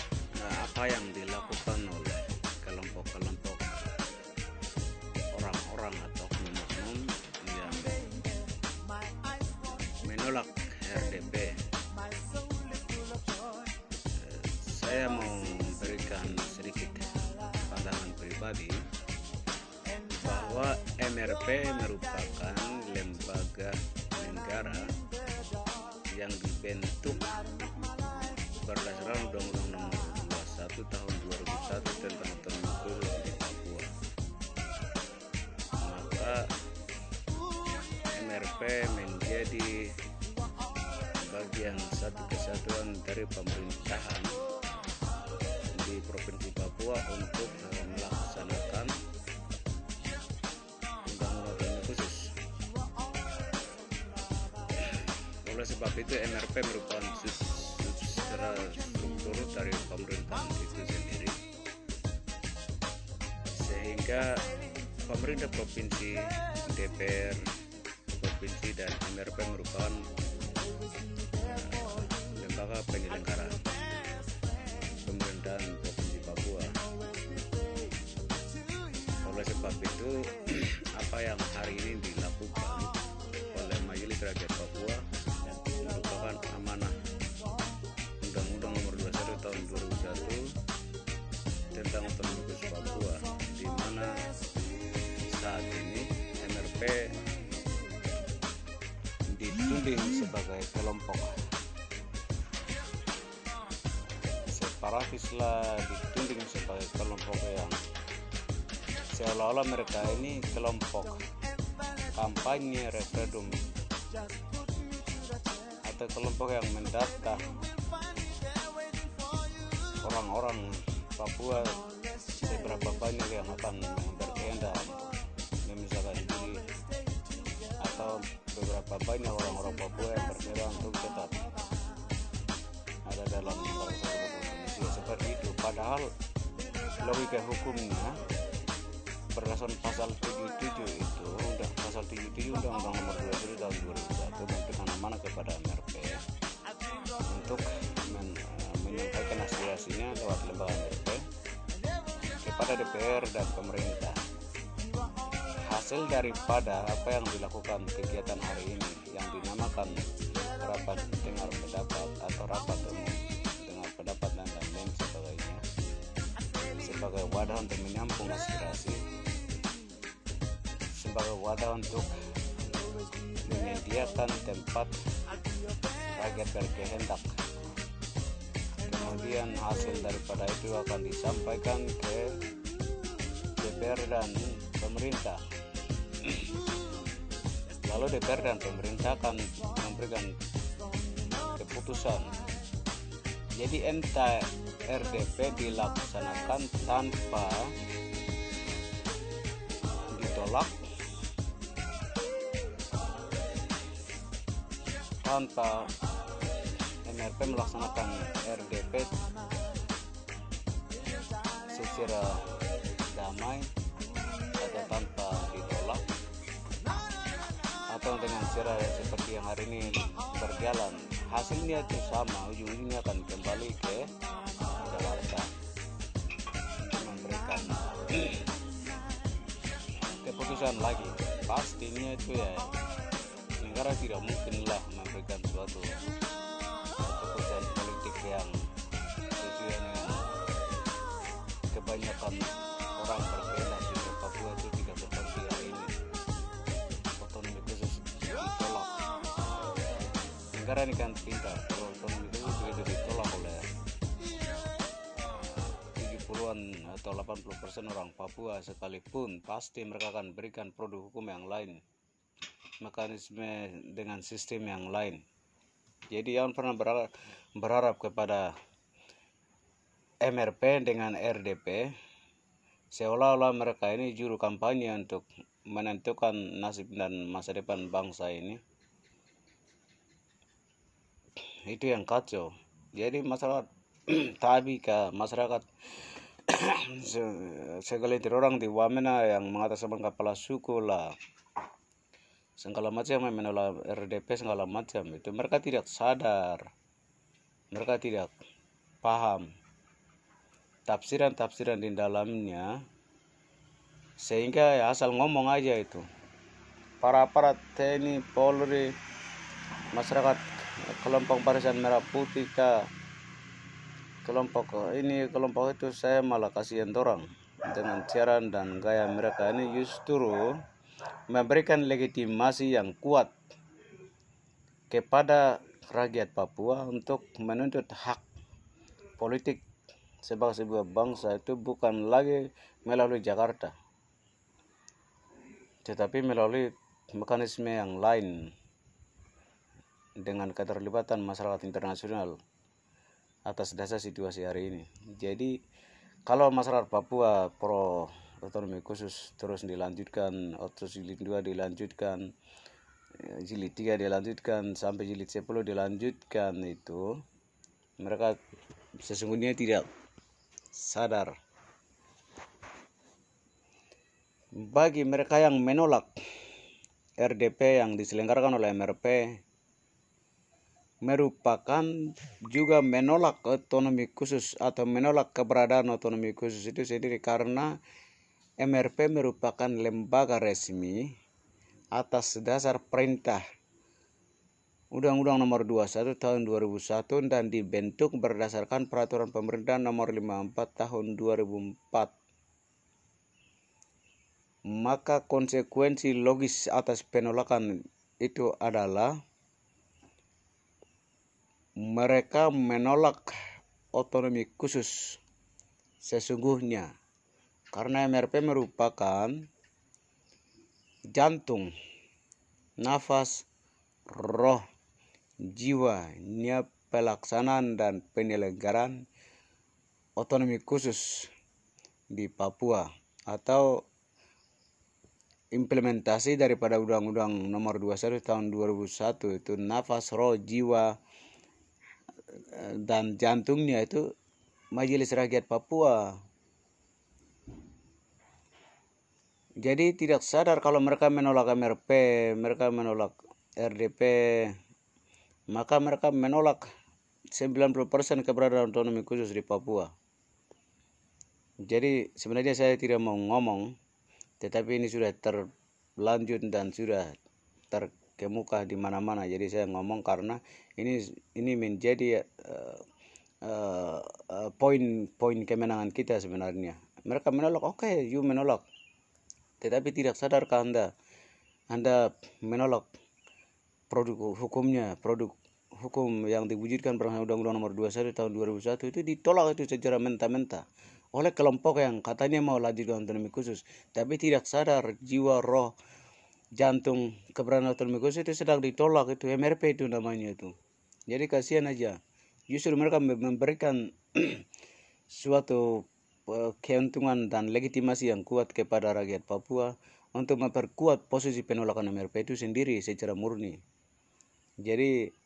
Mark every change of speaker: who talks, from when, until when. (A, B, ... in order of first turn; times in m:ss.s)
0:00.4-0:03.8 A
0:05.3-0:08.0 A
0:10.0-0:11.6 A
0:14.2-0:18.8 A
0:20.1-0:24.9 A
0:26.1-0:27.3 A
0:28.6-0:33.9 A
0:35.8-0:36.5 A
0:38.1-0:39.9 A
0:41.2-0:44.4 A
0:45.7-0:49.0 A
0:51.1-0:52.4 A
0:55.5-1:01.4 A
1:03.5-1:04.4 A
1:05.0-1:07.5 A
1:08.1-1:10.1 A
1:11.4-1:13.7 A
1:15.0-1:16.8 A
1:19.2-1:25.1 A
1:25.6-1:27.0 A
1:28.2-1:30.5 A
1:31.7-1:34.3 A
1:35.2-1:37.2 A
1:39.3-1:41.3 A
1:44.4-1:47.8 A
1:49.1-1:51.2 A
1:52.1-1:53.7 A
1:55.8-1:57.6 A
2:00.0-2:01.8 A
2:02.3-2:06.7 A
2:07.8-2:11.6 A
2:13.1-2:16.1 A
2:17.0-2:18.2 A
2:19.3-2:26.2 A
2:27.2-2:31.2 A
2:32.3-2:34.2 A
2:35.6-2:45.7 A
2:46.7-2:49.1 A
2:50.9-2:52.2 A
2:53.3-2:55.0 A
2:56.2-2:57.3 A
2:58.8-3:02.4 A
3:03.6-3:05.4 A
3:06.2-3:06.5 A
3:07.8-3:10.4 A
3:11.5-3:12.5 A
3:13.6-3:17.7 A
3:20.1-3:20.8 A
3:25.2-3:25.9 A
3:27.0-3:29.3 A
3:31.7-3:32.5 A
3:33.1-3:33.7 A
3:34.6-3:36.0 A
3:37.9-3:45.5 A
3:46.8-3:48.5 A
3:50.1-3:52.8 A
3:53.6-3:56.0 A
3:57.0-3:58.7 A
3:59.4-4:00.3 A
4:01.7-4:06.0 A
4:07.2-4:09.1 A
4:10.5-4:13.7 A
4:15.8-4:21.8 A
4:22.8-4:25.2 A
4:26.1-4:27.1 A
4:27.6-4:28.5 A
4:30.2-4:31.9 A
4:32.9-4:38.6 A
4:41.7-4:45.7 A
4:46.5-4:51.1 A
4:52.6-4:56.7 A
4:57.7-4:58.4 A
4:59.0-4:59.5 A
5:00.9-5:02.7 A
5:04.2-5:06.0 A
5:07.0-5:08.9 A
5:09.9-5:12.9 A
5:14.2-5:20.6 A
5:21.3-5:23.4 A
5:24.9-5:28.2 A
5:29.2-5:29.6 A
5:30.2-5:33.7 A
5:35.8-5:38.5 A
5:40.2-5:42.4 A
5:43.5-5:45.6 A
5:46.3-5:52.3 A
5:53.2-5:57.0 A
5:58.0-5:58.4 A
5:59.0-5:59.9 A
6:00.8-6:01.3 A
6:04.6-6:06.2 A
6:07.2-6:09.4 A
6:11.0-6:17.7 A
6:18.6-6:21.0 A
6:22.0-6:23.4 A
6:24.9-6:32.2 A
6:34.8-6:39.1 A
6:41.8-6:43.3 A
6:43.9-6:45.2 A
6:46.1-6:46.9 A
6:47.7-6:49.4 A
6:51.2-6:51.7 A
6:52.8-6:53.5 A
6:54.1-6:54.6 A
6:55.5-6:59.0 A
7:00.2-7:01.3 A
7:02.1-7:03.7 A
7:05.6-7:10.9 A
7:12.5-7:14.0 A
7:14.8-7:16.1 A
7:19.6-7:24.6 A
7:25.5-7:26.7 A
7:27.4-7:29.9 A
7:31.7-7:33.7 A
7:34.4-7:35.5 A
7:36.0-7:37.1 A
7:37.7-7:42.8 A
7:43.4-7:48.6 A
7:49.6-7:50.9 A
7:51.7-7:52.9 A
7:53.9-8:00.6 A
8:01.2-8:05.7 A
8:06.6-8:10.5 A
8:11.1-8:12.0 A
8:12.5-8:14.4 A
8:15.1-8:23.6 A
8:24.7-8:25.0 A